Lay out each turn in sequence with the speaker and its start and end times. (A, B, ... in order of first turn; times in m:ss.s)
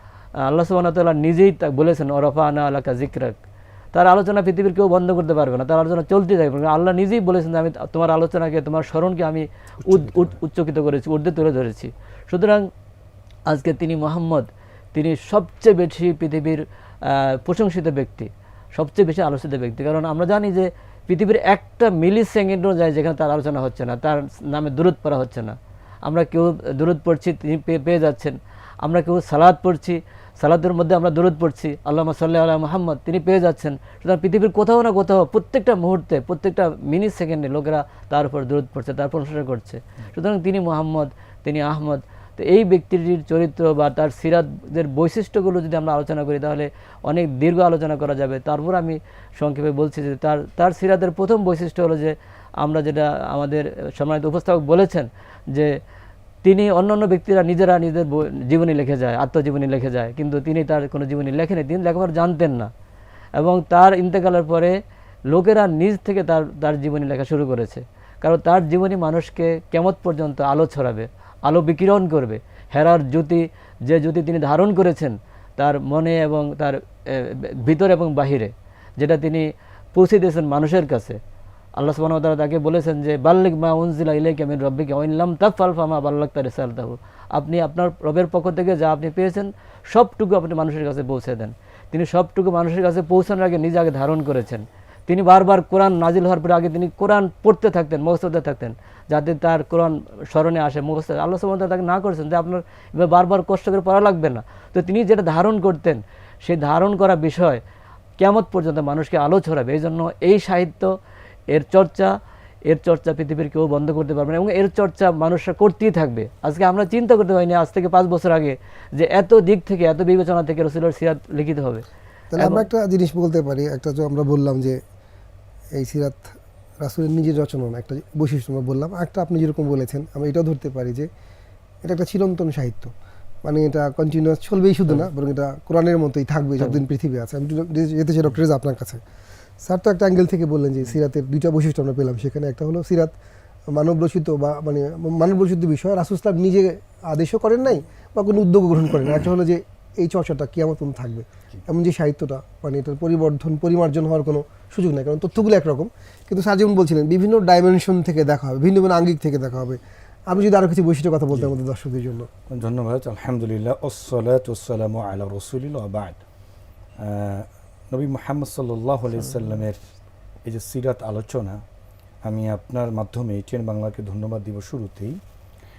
0:00.4-0:03.4 A
0:03.9-0:12.7 A
0:09.8-0:10.4 B
0:13.5-0:55.8 A
0:56.4-1:02.7 A
1:03.4-1:04.8 A
1:05.3-1:21.2 A
1:21.8-1:47.6 A
1:48.2-1:50.9 A
1:51.5-1:52.2 A
1:52.7-2:01.8 A
2:02.3-2:04.8 C
2:02.4-2:02.6 A
2:05.7-2:11.1 C
2:11.8-2:12.9 C
2:13.4-2:19.0 C
2:19.6-2:23.1 C
2:23.7-2:42.3 C
2:42.5-2:46.2 B
2:47.0-2:49.8 B
2:50.4-2:51.6 B
2:52.2-2:55.2 B